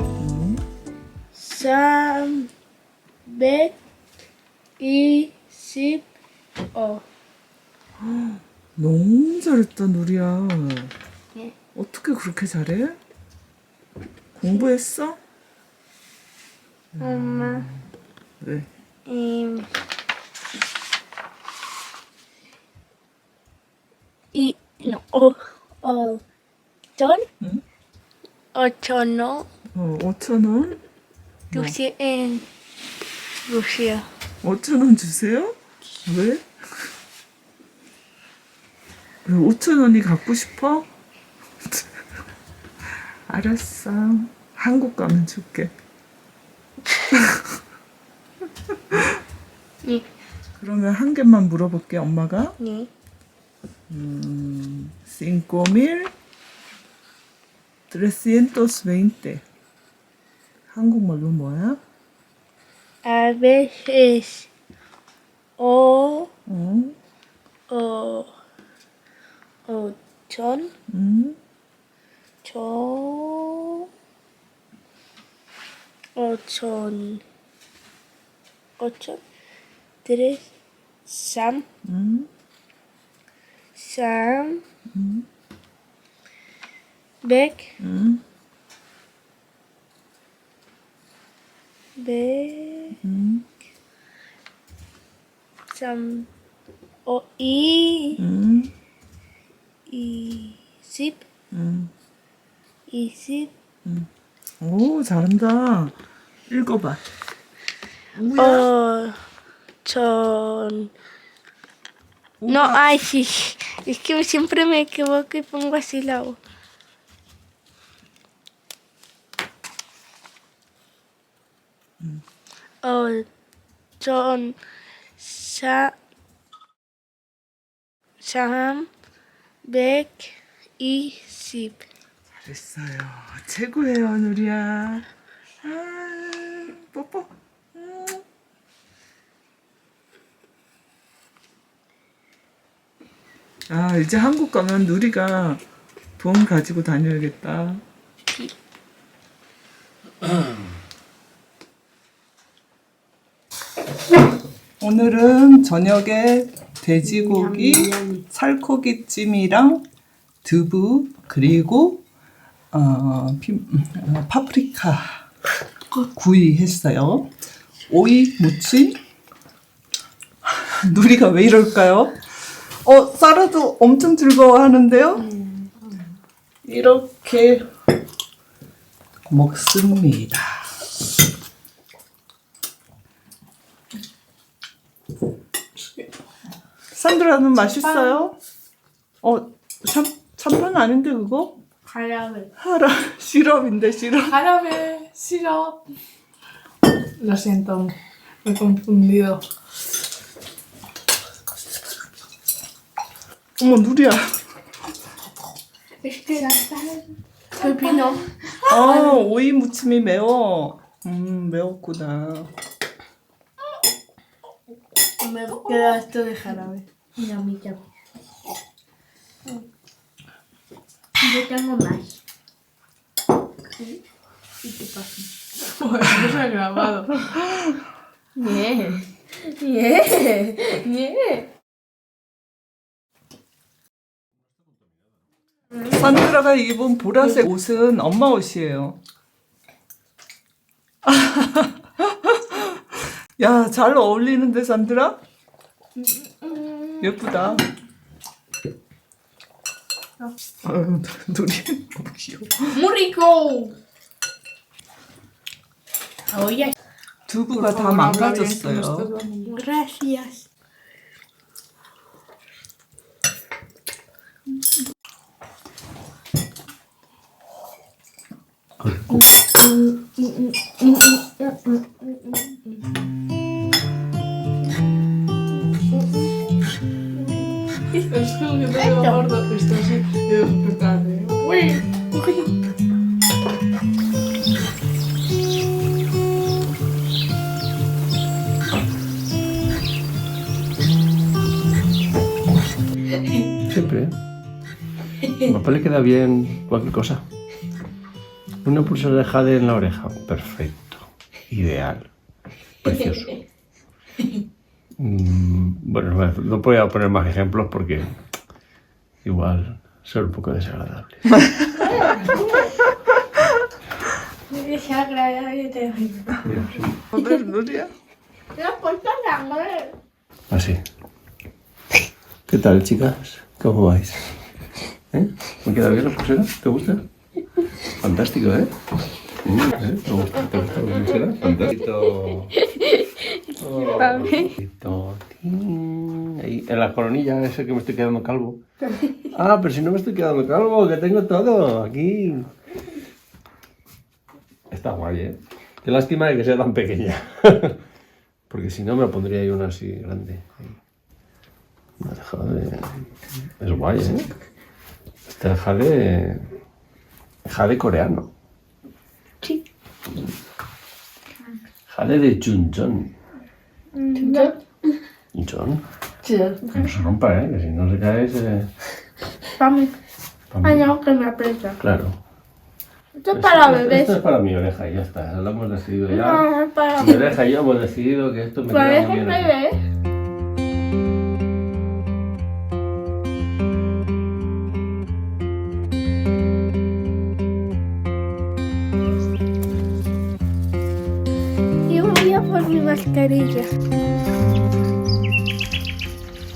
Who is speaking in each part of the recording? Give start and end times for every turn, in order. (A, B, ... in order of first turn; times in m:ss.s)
0:00.2-0:00.6 A
0:01.4-0:02.5 B
0:03.3-0:03.7 B
0:04.8-0:06.1 B
0:06.7-0:07.0 B
0:08.0-0:10.9 A
0:11.8-0:13.0 A
0:14.4-0:15.2 A
0:17.0-0:17.8 A
0:17.0-0:17.7 B
0:18.4-0:18.7 A
0:19.1-0:19.7 B
0:24.3-0:26.2 B
0:27.0-0:27.3 B
0:28.6-0:29.5 B
0:29.7-0:30.8 A
0:31.5-0:32.4 B
0:33.5-0:34.1 B
0:34.4-0:36.4 A
0:39.2-0:40.9 A
0:43.3-0:45.7 A
0:47.1-0:47.4 A
0:50.6-0:52.6 A
0:52.6-0:52.9 B
0:53.9-0:56.1 A
0:57.9-0:59.4 A
1:00.7-1:01.8 A
1:03.0-1:04.5 B
1:05.6-1:06.3 B
1:06.5-1:07.0 A
1:07.7-1:08.3 B
1:09.7-1:10.7 B
1:10.9-1:11.4 A
1:12.4-1:13.9 B
1:16.2-1:17.2 B
1:18.8-1:19.2 B
1:20.0-1:20.5 B
1:21.1-1:21.6 B
1:21.8-1:22.3 A
1:23.8-1:24.6 B
1:24.9-1:25.2 A
1:27.2-1:27.8 B
1:27.8-1:28.2 A
1:32.0-1:33.0 B
1:33.0-1:33.4 A
1:35.7-1:36.3 B
1:37.1-1:38.2 B
1:38.2-1:38.7 A
1:39.9-1:41.2 B
1:41.5-1:41.9 A
1:42.9-1:43.5 B
1:44.6-1:46.0 A
1:46.5-1:47.0 A
1:48.2-1:48.7 A
1:48.4-1:49.2 B
1:49.8-1:50.9 B
1:52.4-1:53.0 A
1:52.5-1:56.4 B
2:02.8-2:03.3 B
2:04.0-2:04.6 B
2:05.2-2:05.9 B
2:08.2-2:08.9 B
2:09.6-2:11.8 B
2:12.3-2:15.1 A
2:15.6-2:18.2 A
2:23.7-2:25.6 A
2:26.2-2:27.8 A
2:34.8-2:39.8 A
2:37.0-2:38.2 B
2:40.4-2:42.0 A
2:42.7-2:45.2 A
2:46.1-2:47.3 A
2:47.9-2:49.0 A
2:50.6-2:52.2 A
2:52.8-2:55.3 A
2:55.3-2:55.7 B
2:56.6-2:57.6 A
2:59.3-3:00.6 A
3:05.8-3:06.1 C
3:06.9-3:08.4 A
3:07.8-3:08.3 C
3:09.2-3:11.6 A
3:11.8-3:12.5 B
3:12.6-3:14.4 A
3:14.3-3:15.8 C
3:17.2-3:19.4 C
3:23.6-3:24.2 A
3:26.0-3:27.0 B
3:27.5-3:29.2 B
3:27.6-3:28.1 C
3:28.7-3:32.5 A
3:35.2-3:37.8 B
3:41.2-3:42.2 B
3:44.6-3:45.3 B
3:45.7-3:47.3 C
3:48.4-3:51.5 B
3:55.8-3:59.0 A
4:01.0-4:02.8 A
4:03.4-4:05.2 A
4:06.0-4:07.1 B
4:07.0-4:07.7 A
4:10.6-4:12.8 A
4:12.7-4:13.8 B
4:16.3-4:16.7 B
4:17.3-4:19.1 A
4:17.6-4:19.6 C
4:19.5-4:20.4 B
4:28.8-4:29.2 D
4:29.4-4:32.4 B
4:37.2-4:38.1 B
4:38.1-4:41.5 C
4:38.8-4:39.2 B
4:41.4-4:42.5 B
4:53.6-4:54.1 D
4:55.4-4:57.2 D
4:58.6-5:02.1 D
5:02.8-5:03.4 D
5:05.0-5:08.1 D
5:09.2-5:11.4 D
5:12.0-5:12.6 B
5:14.5-5:16.6 B
5:16.4-5:16.9 D
5:17.1-5:17.9 A
5:18.6-5:19.9 B
5:20.5-5:20.8 D
5:22.5-5:24.3 D
5:25.1-5:27.0 D
5:28.0-5:28.7 D
5:29.4-5:32.6 D
5:32.6-5:34.5 B
5:33.6-5:38.6 D
5:39.2-5:42.5 D
5:44.7-5:47.8 D
5:48.5-5:50.8 D
5:52.0-5:54.3 D
5:55.4-5:56.5 D
5:57.5-5:58.3 D
6:01.9-6:03.1 D
6:04.0-6:04.9 B
6:05.3-6:05.8 D
6:06.2-6:06.9 B
6:06.7-6:08.7 D
6:09.6-6:09.9 B
6:10.5-6:10.9 D
6:10.6-6:11.8 B
6:11.8-6:12.2 D
6:13.2-6:14.2 B
6:13.3-6:19.5 D
6:16.1-6:17.4 B
6:18.7-6:19.8 B
6:31.9-6:33.7 B